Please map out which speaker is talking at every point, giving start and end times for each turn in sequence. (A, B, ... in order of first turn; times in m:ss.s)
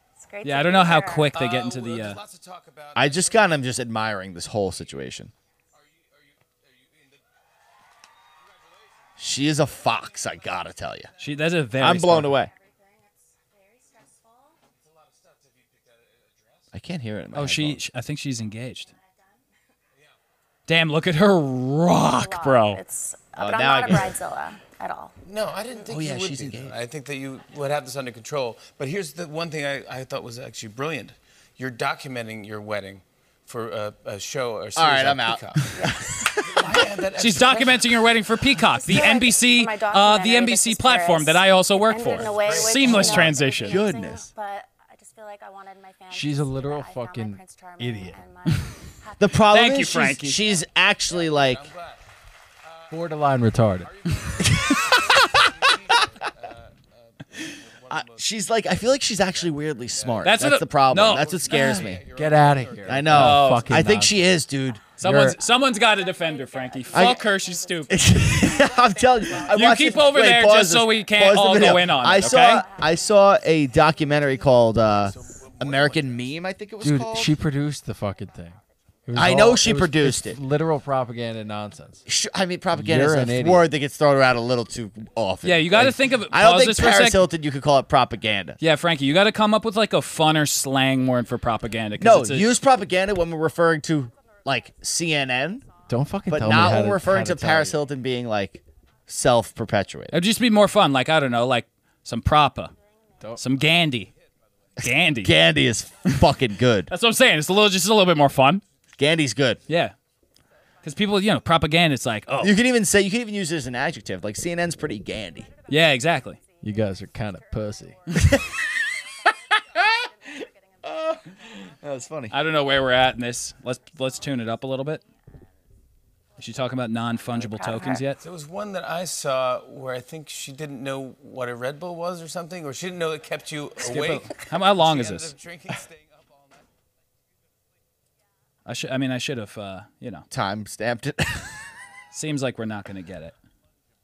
0:00.2-0:01.3 A
0:00.4-0:02.2 B
0:01.3-0:03.5 C
0:03.0-0:05.3 D
0:05.8-0:07.2 C
0:08.5-0:09.1 C
0:09.2-0:11.1 D
0:11.2-0:12.3 B
0:11.8-0:12.5 D
0:12.2-0:14.6 A
0:14.8-0:16.7 C
0:16.7-0:17.8 D
0:17.3-0:18.9 B
0:18.4-0:19.4 A
0:20.7-0:22.8 B
0:22.0-0:25.2 A
0:23.4-0:24.2 D
0:25.2-0:35.7 C
0:25.9-0:26.8 D
0:34.8-0:36.7 D
0:35.7-0:36.8 A
0:36.4-0:38.0 C
0:37.2-0:43.8 B
0:37.5-0:37.7 A
0:38.5-0:49.9 A
0:42.0-0:43.4 C
0:43.6-0:44.2 D
0:46.1-0:48.2 E
0:49.2-0:51.6 D
0:49.5-0:50.5 B
0:51.1-0:52.0 C
0:52.6-0:53.2 C
0:52.9-0:53.9 E
0:53.8-1:03.6 C
0:54.4-0:55.4 D
0:57.9-1:02.0 D
1:00.2-1:01.9 B
1:02.1-1:04.3 E
1:02.9-1:04.8 D
1:03.1-1:03.7 B
1:03.9-1:15.5 A
1:05.0-1:08.5 B
1:05.0-1:05.4 E
1:06.9-1:07.2 D
1:07.9-1:17.4 D
1:09.5-1:12.6 B
1:14.9-1:16.4 C
1:16.8-1:22.0 E
1:17.1-1:19.6 A
1:19.2-1:20.4 D
1:21.9-1:22.3 A
1:22.1-1:28.6 D
1:22.7-1:23.6 E
1:25.4-1:27.3 B
1:28.6-1:32.6 B
1:31.0-1:32.0 A
1:32.0-1:35.6 D
1:32.6-1:37.0 A
1:35.9-1:37.8 E
1:36.3-1:40.2 D
1:39.0-1:39.4 A
1:40.1-1:42.7 B
1:42.5-1:43.9 A
1:43.4-1:44.1 B
1:44.1-1:44.8 C
1:44.8-1:46.9 D
1:44.8-1:45.3 B
1:45.9-1:46.1 A
1:46.9-1:48.6 B
1:49.0-1:49.6 D
1:49.7-1:49.9 B
1:50.5-1:51.8 A
1:50.8-1:52.5 B
1:52.4-1:55.5 D
1:54.7-2:08.2 A
1:55.7-1:56.4 B
1:56.6-1:58.0 E
1:58.1-1:58.5 D
1:59.8-2:00.1 D
2:00.8-2:02.3 D
2:02.3-2:05.0 B
2:06.4-2:08.2 B
2:08.2-2:16.7 C
2:13.8-2:15.3 B
2:18.6-2:20.3 B
2:20.3-2:21.6 D
2:22.1-2:23.3 B